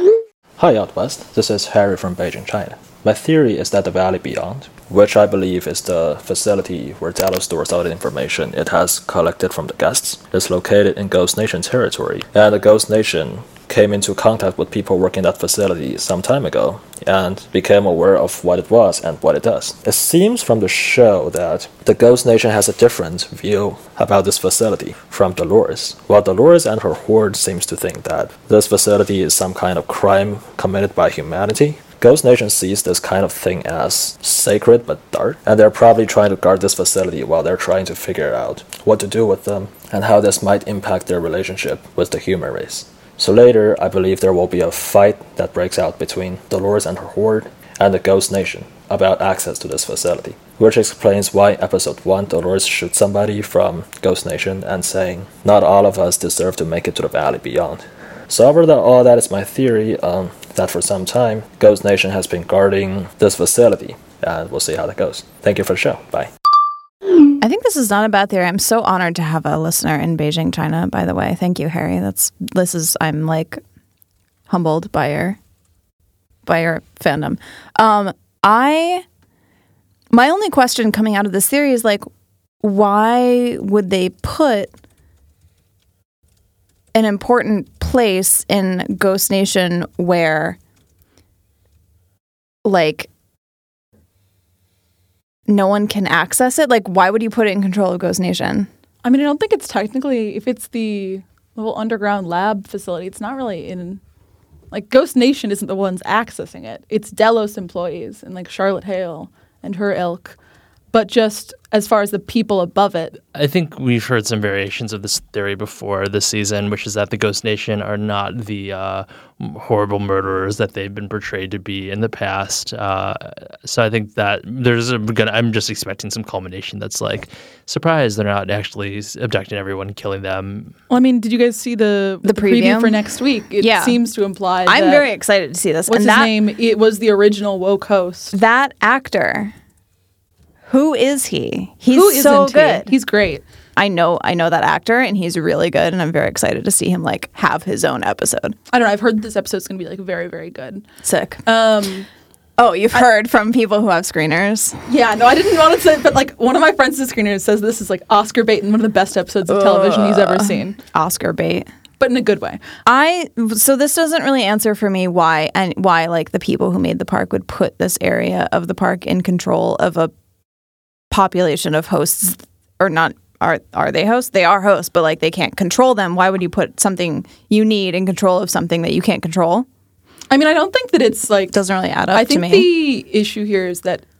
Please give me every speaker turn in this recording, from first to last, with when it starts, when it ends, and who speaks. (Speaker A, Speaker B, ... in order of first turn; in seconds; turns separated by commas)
Speaker A: 0.6-66.3, Speaker B: 67.4-73.6, Speaker B: 74.5-75.4, Speaker B: 76.5-79.0, Speaker B: 80.1-82.0, Speaker B: 82.6-84.7, Speaker B: 86.9-90.6, Speaker B: 92.6-93.1, Speaker B: 95.5-98.7, Speaker C: 99.0-104.0, Speaker C: 104.7-110.3, Speaker C: 110.9-113.2, Speaker D: 113.3-130.7, Speaker C: 130.9-135.1, Speaker B: 132.2-133.0, Speaker B: 133.6-134.0, Speaker B: 134.7-136.3, Speaker C: 135.9-138.3, Speaker B: 138.3-139.5, Speaker B: 140.7-142.9, Speaker C: 141.9-143.4, Speaker B: 143.8-148.6, Speaker C: 148.7-150.8, Speaker B: 151.0-151.4, Speaker C: 151.4-152.1, Speaker B: 152.6-154.8, Speaker C: 154.9-160.8, Speaker B: 159.5-161.7, Speaker C: 162.0-162.6, Speaker B: 162.8-170.1, Speaker B: 171.1-179.7, Speaker C: 180.3-181.5, Speaker B: 181.5-182.7, Speaker C: 182.1-184.0